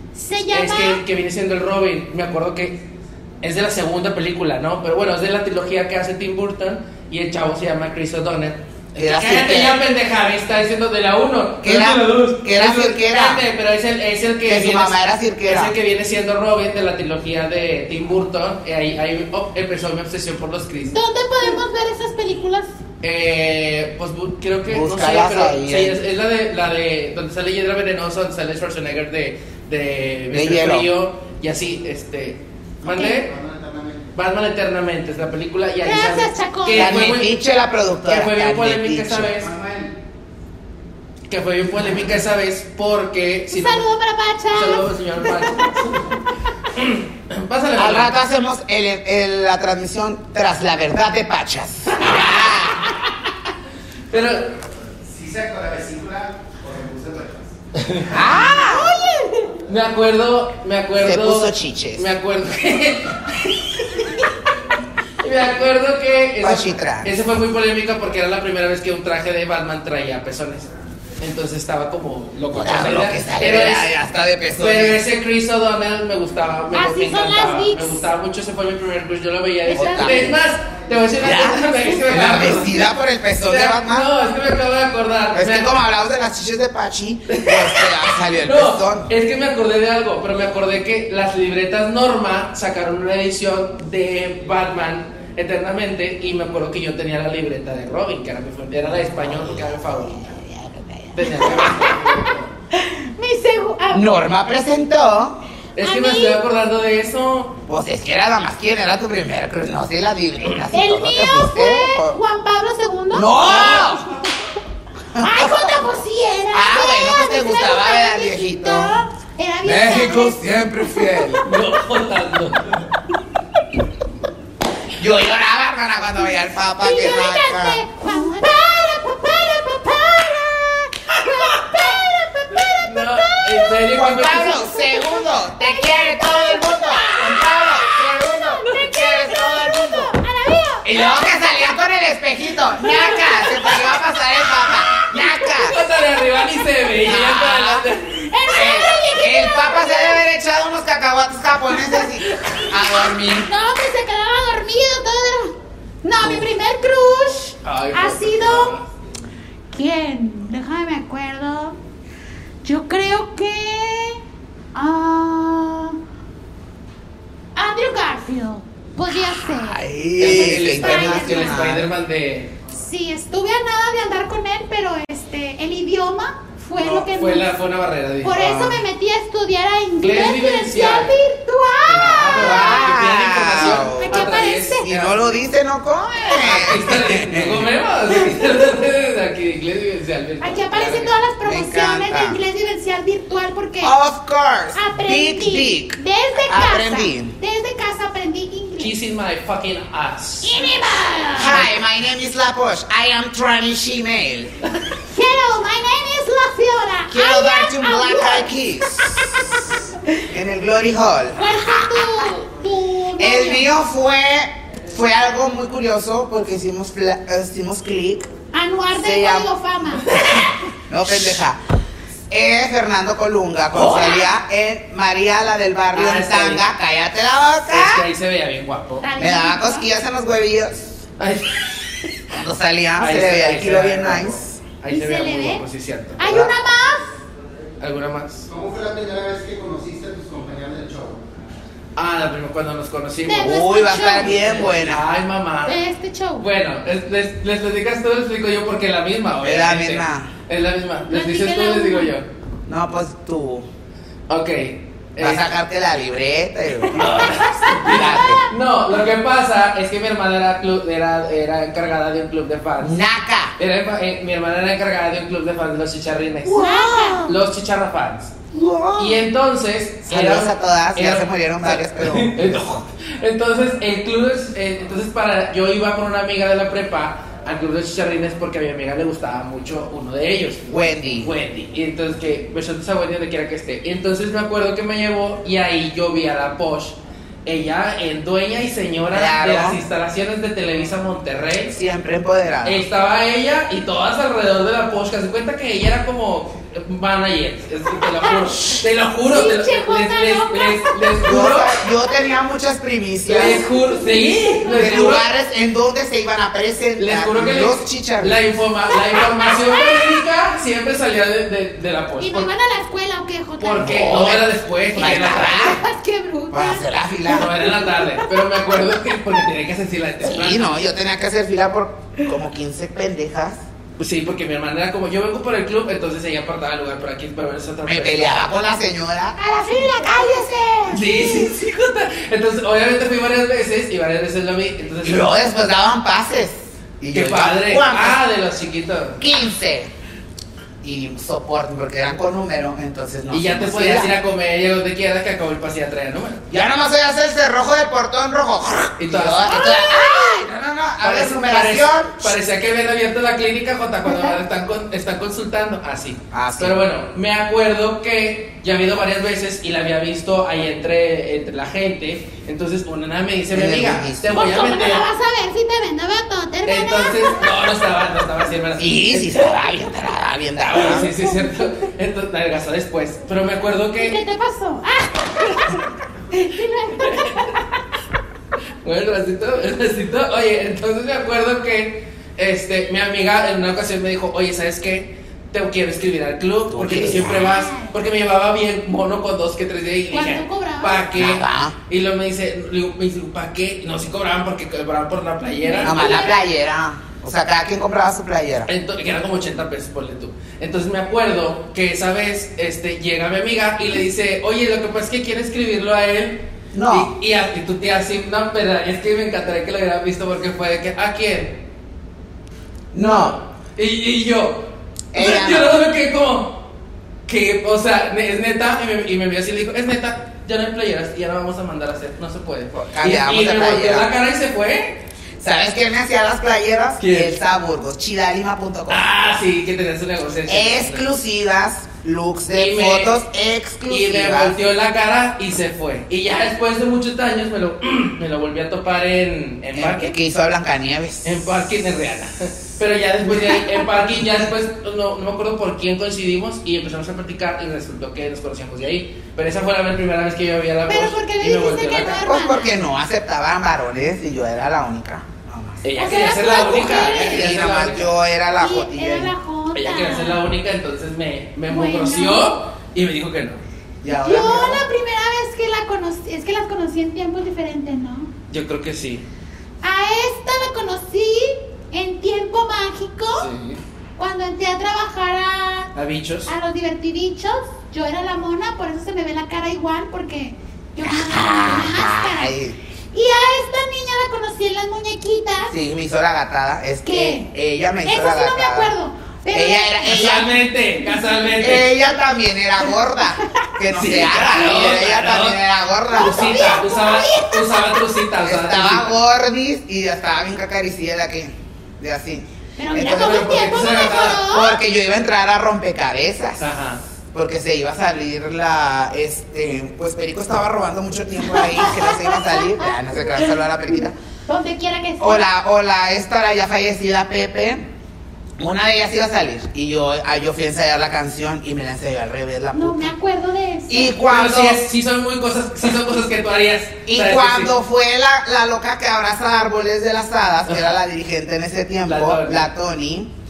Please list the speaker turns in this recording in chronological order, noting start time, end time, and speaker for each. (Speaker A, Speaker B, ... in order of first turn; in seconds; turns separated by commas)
Speaker A: 0.1-1.0, Speaker B: 0.5-2.9, Speaker B: 3.4-20.9, Speaker C: 9.0-9.8, Speaker C: 11.6-13.4, Speaker C: 14.4-15.7, Speaker A: 20.9-22.7, Speaker B: 23.0-33.3, Speaker C: 24.7-26.0, Speaker C: 30.3-30.9, Speaker A: 32.8-33.2, Speaker D: 33.2-34.1, Speaker B: 34.1-37.3, Speaker A: 35.8-37.1, Speaker C: 36.7-39.4, Speaker B: 38.1-39.5, Speaker D: 39.4-39.9, Speaker B: 41.3-43.8, Speaker A: 43.5-45.5, Speaker B: 44.5-48.1, Speaker C: 47.8-52.9, Speaker B: 51.9-52.8, Speaker B: 54.1-54.4, Speaker D: 55.0-57.5, Speaker B: 57.7-58.1, Speaker C: 58.1-58.9, Speaker A: 58.4-59.6, Speaker B: 59.7-63.6, Speaker C: 61.0-62.1, Speaker B: 65.2-73.9, Speaker C: 66.4-67.2, Speaker C: 72.5-75.0, Speaker B: 74.6-82.8, Speaker A: 76.7-78.0, Speaker A: 79.7-80.4, Speaker C: 79.7-80.4, Speaker C: 81.2-84.1, Speaker B: 83.5-85.7, Speaker C: 85.3-89.1, Speaker B: 87.3-100.4, Speaker C: 100.3-101.5, Speaker B: 101.1-102.5, Speaker A: 101.2-104.2, Speaker C: 103.9-105.4, Speaker B: 105.8-107.6, Speaker A: 105.8-106.4, Speaker C: 107.7-112.2, Speaker A: 110.7-114.1, Speaker C: 113.1-114.0, Speaker C: 115.1-115.8, Speaker A: 115.2-121.6, Speaker C: 116.5-119.0, Speaker C: 119.6-121.4, Speaker B: 121.4-122.9, Speaker C: 125.0-127.8, Speaker A: 126.8-141.1, Speaker B: 132.8-134.6, Speaker C: 133.9-140.1, Speaker C: 140.8-145.7, Speaker A: 142.7-147.1, Speaker B: 145.6-148.3, Speaker C: 147.0-147.9, Speaker A: 148.1-150.2, Speaker C: 148.5-153.5, Speaker A: 151.8-158.8, Speaker C: 156.2-156.5, Speaker B: 157.6-158.9, Speaker A: 159.7-161.8, Speaker A: 162.6-164.2, Speaker A: 164.7-166.0, Speaker A: 167.6-169.8, Speaker C: 169.4-171.9, Speaker B: 170.2-172.5, Speaker A: 170.7-171.6, Speaker A: 172.8-177.5, Speaker C: 176.8-177.0, Speaker B: 176.8-178.4, Speaker A: 178.2-184.9, Speaker C: 178.3-178.8, Speaker B: 180.0-181.1, Speaker B: 181.8-185.2, Speaker C: 182.3-184.3, Speaker C: 184.8-187.7, Speaker B: 186.4-191.1, Speaker A: 190.4-193.9, Speaker C: 191.4-192.4, Speaker C: 193.8-197.3, Speaker A: 194.7-198.9, Speaker B: 198.8-200.5, Speaker A: 200.4-201.7, Speaker C: 201.3-204.5, Speaker A: 205.1-209.8, Speaker C: 207.1-209.6, Speaker C: 210.2-212.1, Speaker A: 211.3-213.7, Speaker C: 213.2-218.3, Speaker A: 218.5-220.2, Speaker C: 218.9-219.5, Speaker C: 220.9-221.6, Speaker C: 222.3-228.1, Speaker B: 225.9-226.6, Speaker B: 227.7-229.1, Speaker A: 229.0-229.8, Speaker C: 229.2-231.0, Speaker B: 231.2-232.2, Speaker C: 232.3-234.6, Speaker B: 233.0-236.2, Speaker A: 234.9-235.6, Speaker A: 236.2-237.1, Speaker C: 236.2-236.5, Speaker B: 237.8-238.5, Speaker D: 238.5-241.3, Speaker B: 241.9-245.8, Speaker A: 243.2-244.4, Speaker C: 243.4-245.1, Speaker A: 245.6-246.5, Speaker B: 246.4-252.3, Speaker C: 249.4-250.3, Speaker A: 251.1-252.1, Speaker C: 252.7-253.7, Speaker B: 254.3-255.5, Speaker C: 255.2-257.3, Speaker B: 256.9-262.9, Speaker A: 257.0-258.4, Speaker C: 257.8-258.4, Speaker C: 262.8-263.5, Speaker B: 263.6-266.6, Speaker C: 266.4-267.3, Speaker A: 266.5-267.3, Speaker B: 267.2-268.3, Speaker C: 268.5-269.2, Speaker B: 268.9-291.8, Speaker C: 270.1-272.5, Speaker C: 280.7-281.3, Speaker C: 289.1-289.8, Speaker C: 291.7-292.8, Speaker B: 292.6-301.7, Speaker A: 298.2-301.2, Speaker C: 301.2-303.6, Speaker B: 303.3-305.2, Speaker C: 304.7-308.4, Speaker B: 307.0-312.5, Speaker A: 308.9-310.2, Speaker A: 312.2-314.2, Speaker B: 313.6-315.8, Speaker C: 313.8-315.8, Speaker A: 314.9-318.6, Speaker C: 316.5-317.6, Speaker B: 317.3-320.8, Speaker C: 320.2-323.6, Speaker B: 324.0-328.4, Speaker C: 327.8-329.4, Speaker A: 329.4-331.5, Speaker B: 330.9-335.4, Speaker C: 335.0-338.2, Speaker B: 337.1-339.2, Speaker C: 339.2-339.9, Speaker C: 340.8-344.1, Speaker B: 343.3-346.4, Speaker C: 346.5-352.3, Speaker B: 349.0-349.7, Speaker A: 349.5-350.5, Speaker B: 351.0-365.1, Speaker C: 356.3-356.8, Speaker C: 363.5-364.5, Speaker A: 364.3-367.5, Speaker B: 366.6-369.5, Speaker C: 368.8-371.1, Speaker B: 370.7-374.2, Speaker A: 370.7-371.7, Speaker A: 374.0-377.6, Speaker B: 377.0-377.5, Speaker B: 378.8-396.3, Speaker C: 386.7-387.5, Speaker A: 387.2-387.9, Speaker A: 390.1-391.1, Speaker C: 391.1-391.8, Speaker A: 395.5-396.4, Speaker C: 395.8-398.7, Speaker B: 398.7-411.6, Speaker C: 406.7-407.1, Speaker C: 412.9-413.4, Speaker B: 413.0-416.6, Speaker C: 415.1-415.8, Speaker B: 417.3-425.0, Speaker C: 422.9-424.1, Speaker C: 425.4-429.1, Speaker B: 427.0-427.4, Speaker B: 428.9-431.1, Speaker C: 430.5-434.6, Speaker B: 432.5-433.1, Speaker B: 433.9-440.1, Speaker C: 439.7-441.4, Speaker B: 441.2-452.3, Speaker A: 450.9-452.8, Speaker C: 452.1-455.8, Speaker B: 455.8-458.1, Speaker A: 456.0-457.5, Speaker C: 456.7-459.3, Speaker A: 458.6-460.4, Speaker B: 459.7-463.6, Speaker A: 461.7-462.5, Speaker C: 464.0-464.8, Speaker A: 464.1-468.3, Speaker B: 468.5-469.2, Speaker A: 469.8-473.5, Speaker B: 473.4-473.8, Speaker A: 474.2-475.9, Speaker B: 475.9-476.5, Speaker A: 476.4-482.5, Speaker C: 481.0-482.8, Speaker A: 483.1-485.7, Speaker C: 485.7-488.9, Speaker A: 487.0-487.5, Speaker A: 488.0-490.4, Speaker C: 489.5-490.5, Speaker B: 490.0-491.9, Speaker C: 491.6-496.5, Speaker A: 493.4-493.7, Speaker B: 493.9-499.1, Speaker A: 496.1-498.0, Speaker C: 498.4-503.8, Speaker A: 502.8-504.8, Speaker B: 503.0-504.4, Speaker C: 504.4-506.6, Speaker B: 506.6-507.0, Speaker C: 507.3-514.1, Speaker A: 511.5-513.5, Speaker A: 514.5-515.5, Speaker C: 515.2-517.9, Speaker C: 518.6-523.1, Speaker A: 522.7-524.1, Speaker C: 523.9-524.8, Speaker B: 524.2-527.7, Speaker C: 527.1-533.3, Speaker B: 532.0-532.6